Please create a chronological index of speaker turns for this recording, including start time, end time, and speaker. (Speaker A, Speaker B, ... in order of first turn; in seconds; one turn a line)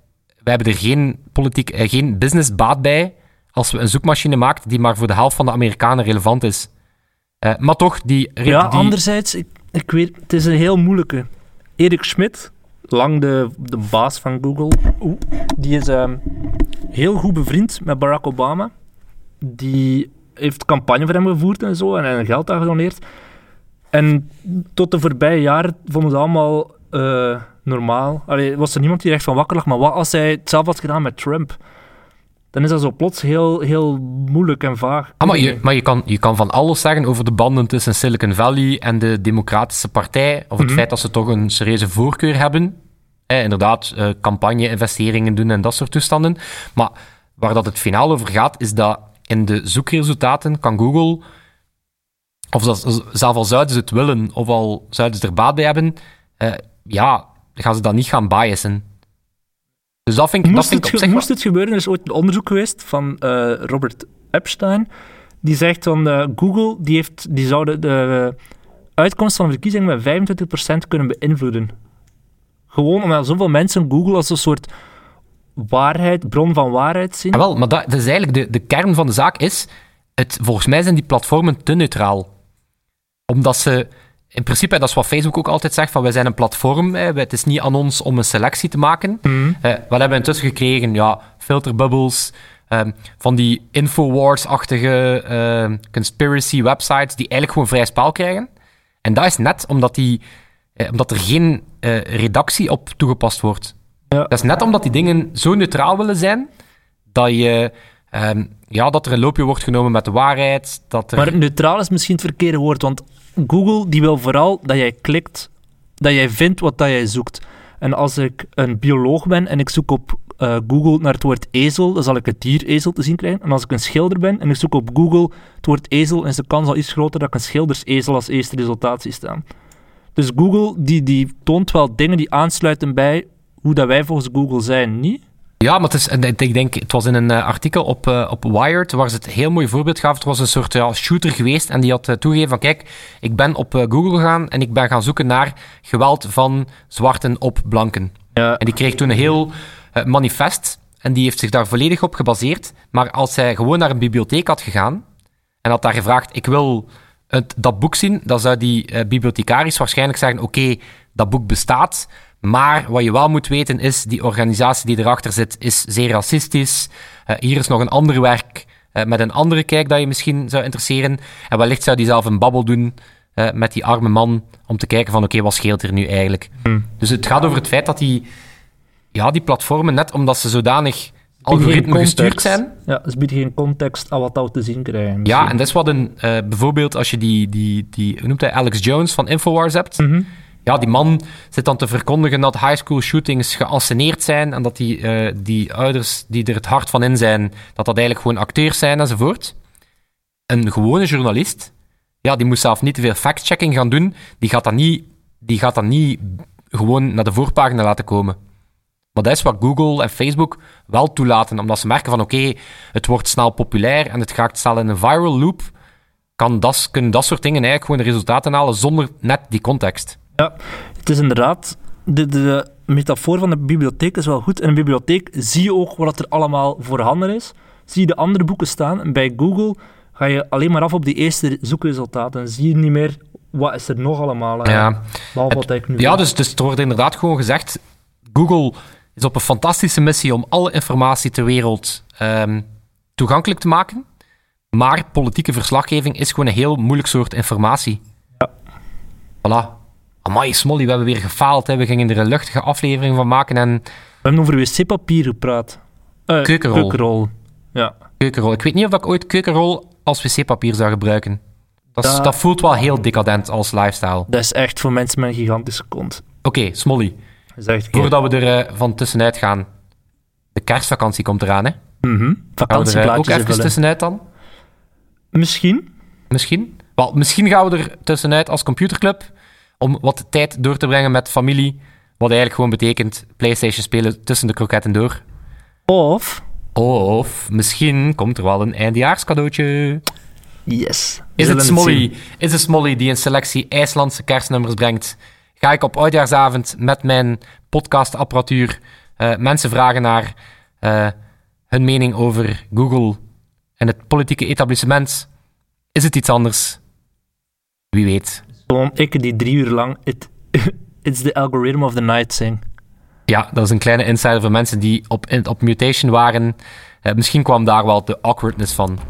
Speaker A: 0.4-6.7
Speaker A: 7.4-9.0
Speaker B: 8.5-16.4
Speaker B: 16.9-18.7
Speaker B: 19.4-23.0
Speaker B: 23.9-31.6
Speaker B: 32.5-35.6
Speaker A: 35.2-42.8
Speaker B: 40.6-40.9
Speaker A: 43.3-51.2
Speaker A: 52.5-58.9
Speaker A: 60.1-61.3
Speaker B: 60.5-64.9
Speaker B: 65.4-68.3
Speaker B: 69.0-71.7
Speaker B: 72.7-74.7
Speaker B: 75.6-77.4
Speaker A: 77.3-82.3
Speaker A: 83.3-98.5
Speaker B: 89.3-89.6
Speaker A: 99.0-100.2
Speaker A: 100.8-103.7
Speaker A: 104.3-106.5
Speaker A: 107.1-111.4
Speaker B: 111.2-129.4
Speaker B: 130.2-135.2
Speaker A: 135.6-155.0
Speaker B: 148.3-148.6
Speaker A: 155.6-178.3
Speaker A: 179.1-182.7
Speaker B: 181.5-185.6
Speaker A: 185.2-190.0
Speaker B: 190.0-190.3
Speaker A: 190.7-199.6
Speaker A: 200.5-201.7
Speaker A: 202.2-208.4
Speaker A: 209.2-215.7
Speaker A: 216.4-220.2
Speaker B: 220.4-236.2
Speaker A: 234.7-235.0
Speaker A: 235.5-242.7
Speaker A: 243.2-244.1
Speaker A: 244.7-248.0
Speaker A: 249.4-253.8
Speaker B: 254.2-258.0
Speaker A: 256.4-257.0
Speaker A: 258.2-261.4
Speaker A: 262.0-264.3
Speaker B: 262.0-262.4
Speaker B: 264.3-266.2
Speaker A: 266.4-267.2
Speaker B: 267.6-268.1
Speaker A: 267.9-269.7
Speaker A: 270.6-271.8
Speaker B: 272.0-273.7
Speaker A: 272.7-274.2
Speaker B: 275.3-275.9
Speaker A: 276.3-279.3
Speaker A: 279.8-285.2
Speaker B: 285.9-286.4
Speaker A: 286.8-290.0
Speaker B: 290.7-292.1
Speaker A: 291.4-301.1
Speaker A: 301.7-303.2
Speaker A: 303.8-305.3
Speaker A: 305.9-306.8
Speaker A: 307.9-308.4
Speaker B: 308.7-312.6
Speaker A: 313.3-319.0